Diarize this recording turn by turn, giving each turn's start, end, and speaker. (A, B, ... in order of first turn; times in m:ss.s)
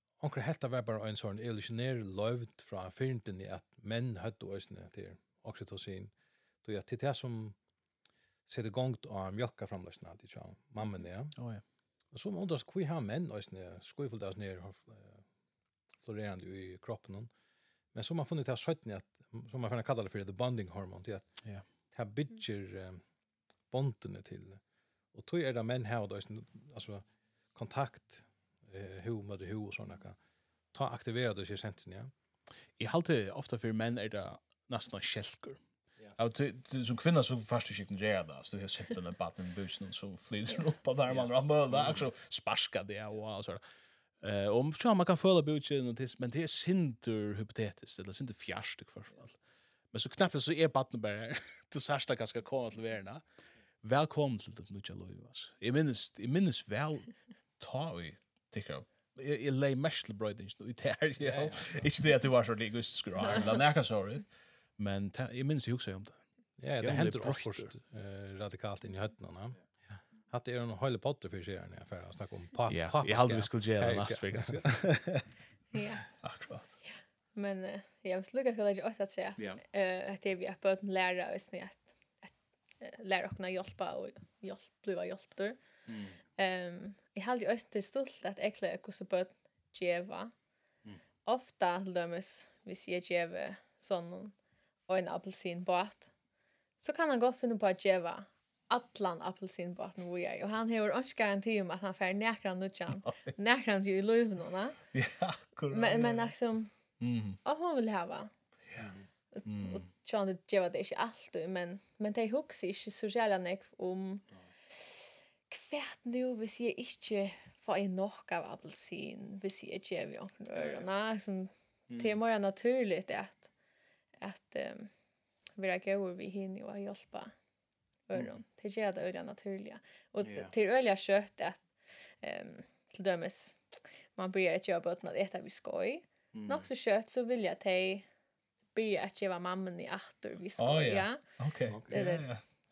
0:00.2-0:06.1 A
0:06.6-0:07.6 A
0:08.5-0:11.4 A
0:11.4-0:11.6 B
0:12.1-0:15.2 A
0:16.0-0:17.3 A
0:17.9-0:21.4 A
0:21.9-0:23.0 A
0:23.7-0:24.6 A
0:25.1-0:30.2 A
0:30.7-0:32.1 A
0:32.8-0:35.6 B
0:36.2-0:43.6 B
0:41.2-0:42.0 A
0:44.2-0:49.4 B
0:49.9-0:53.2 B
0:53.8-1:06.2 B
1:01.2-1:01.9 A
1:06.6-1:14.7 A
1:06.8-1:07.7 B
1:12.7-1:15.3 B
1:15.7-1:16.1 C
1:16.2-1:16.7 B
1:16.8-1:25.6 C
1:25.9-1:26.2 B
1:26.4-1:30.3 C
1:31.2-1:34.3 C
1:34.9-1:36.1 C
1:36.8-1:44.8 C
1:43.0-1:43.3 B
1:44.9-1:46.3 B
1:45.7-1:46.7 C
1:47.0-1:47.4 B
1:47.4-1:48.3 C
1:49.3-2:03.5 C
1:49.4-1:49.8 B
2:01.9-2:02.2 B
2:04.2-2:04.9 C
2:05.6-2:07.3 C
2:08.1-2:11.6 C
2:10.2-2:10.5 B
2:12.2-2:13.6 C
2:14.2-2:18.0 C
2:16.3-2:16.7 B
2:18.7-2:21.2 C
2:20.6-2:22.4 B
2:21.9-2:22.3 C